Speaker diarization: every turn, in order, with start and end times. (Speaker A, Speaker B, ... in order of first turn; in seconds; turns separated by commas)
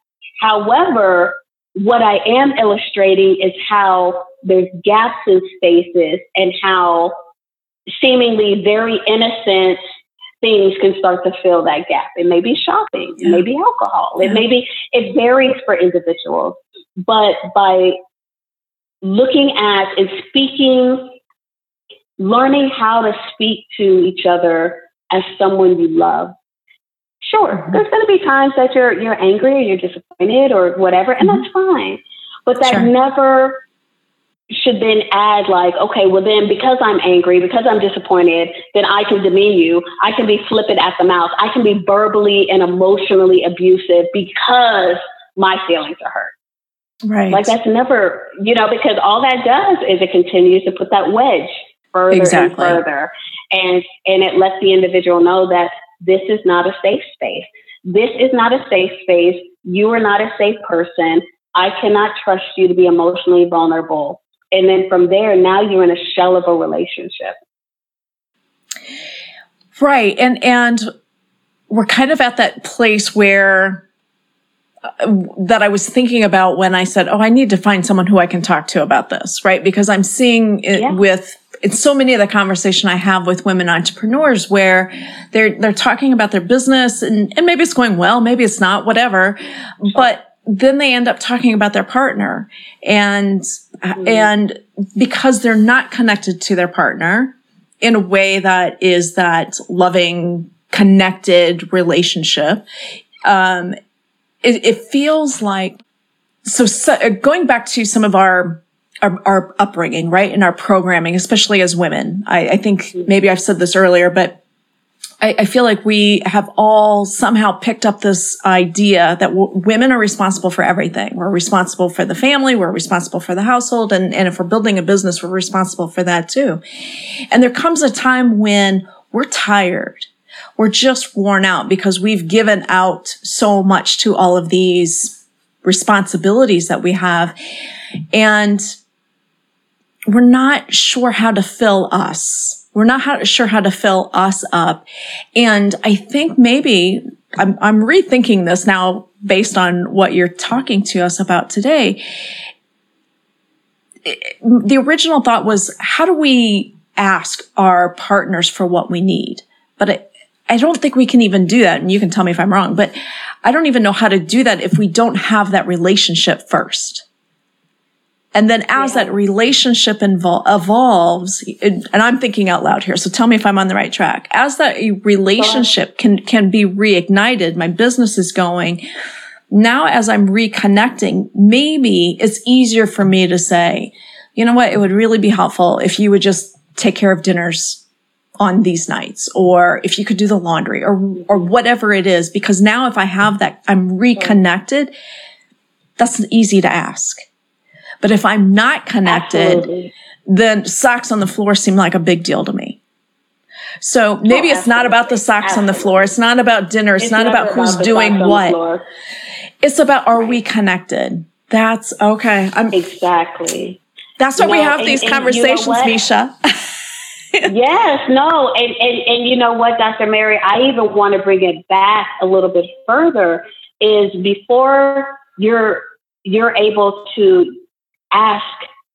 Speaker A: 0.4-7.1, Speaker A: 8.0-9.8, Speaker A: 10.4-17.9, Speaker A: 19.0-21.1, Speaker A: 22.2-26.3, Speaker A: 27.2-33.6, Speaker A: 34.5-46.3, Speaker B: 47.0-47.5, Speaker A: 47.3-67.3, Speaker B: 52.1-52.8, Speaker B: 69.8-70.9, Speaker B: 71.7-73.8, Speaker B: 75.0-102.6, Speaker A: 80.7-81.0, Speaker B: 103.2-103.7, Speaker B: 104.4-105.8, Speaker B: 106.4-114.4, Speaker B: 115.2-126.6, Speaker B: 127.3-137.3, Speaker B: 138.1-138.7, Speaker B: 140.1-144.8, Speaker B: 145.3-152.0, Speaker B: 154.0-162.9, Speaker B: 163.4-167.0, Speaker B: 168.3-178.8, Speaker A: 168.7-169.1, Speaker A: 175.4-175.7, Speaker B: 179.5-187.8, Speaker B: 188.4-194.9, Speaker B: 196.0-197.2, Speaker B: 198.0-199.6, Speaker A: 199.1-199.9, Speaker B: 200.3-202.8, Speaker B: 203.8-208.6, Speaker A: 204.3-206.1, Speaker A: 207.0-208.8, Speaker B: 209.6-212.8, Speaker A: 212.7-213.8, Speaker B: 214.2-216.3, Speaker A: 214.4-215.9, Speaker A: 217.4-227.6, Speaker A: 228.1-228.7